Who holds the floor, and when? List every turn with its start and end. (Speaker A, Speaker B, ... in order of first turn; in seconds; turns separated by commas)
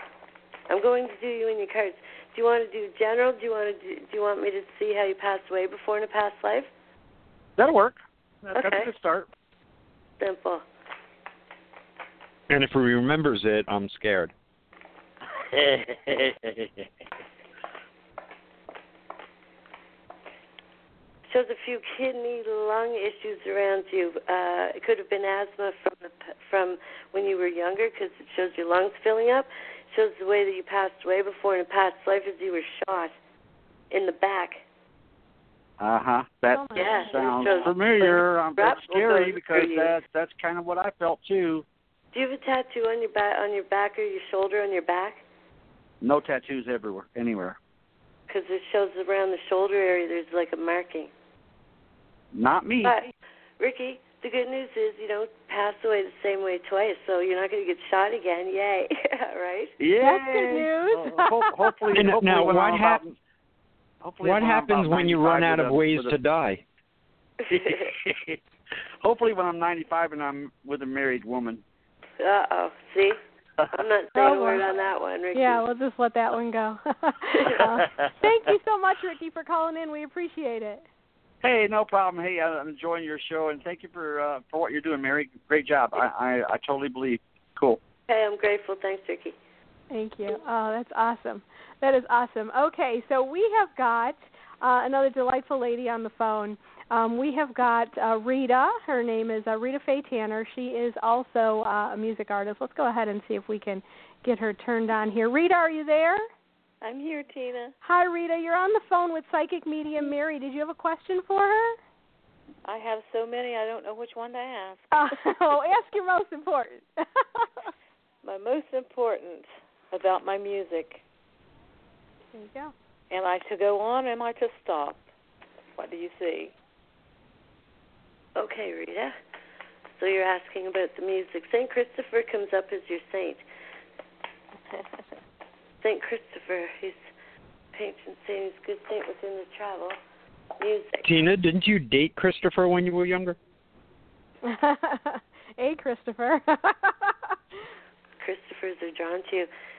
Speaker A: 0.7-6.7, Speaker B: 7.6-9.3, Speaker A: 8.5-8.9, Speaker A: 10.2-10.6, Speaker C: 12.5-14.3, Speaker A: 21.3-33.1, Speaker A: 33.9-34.6, Speaker B: 35.8-41.6, Speaker D: 36.5-37.6, Speaker A: 36.8-40.0, Speaker A: 42.1-45.2, Speaker B: 46.0-47.6, Speaker A: 48.3-51.1, Speaker B: 52.3-53.0, Speaker A: 52.8-59.7, Speaker B: 59.8-63.2, Speaker D: 60.0-61.8, Speaker C: 61.9-63.0, Speaker B: 64.0-66.2, Speaker C: 64.2-66.6, Speaker B: 67.5-68.4, Speaker B: 69.0-71.6, Speaker A: 72.2-73.2, Speaker A: 73.7-75.6, Speaker D: 74.2-74.7, Speaker D: 75.3-80.8, Speaker B: 77.8-78.4, Speaker B: 81.4-87.8, Speaker A: 88.1-89.3, Speaker D: 89.9-106.2, Speaker E: 106.8-107.7, Speaker D: 107.8-111.8, Speaker E: 112.7-115.2, Speaker D: 114.9-117.5, Speaker E: 118.2-121.0, Speaker D: 122.3-122.7, Speaker E: 123.1-125.0, Speaker E: 125.8-126.5, Speaker A: 128.4-129.2, Speaker A: 130.0-133.4, Speaker A: 135.8-137.1, Speaker A: 137.7-140.0, Speaker A: 140.6-141.1, Speaker C: 141.0-143.4, Speaker D: 144.4-147.3, Speaker A: 148.2-149.5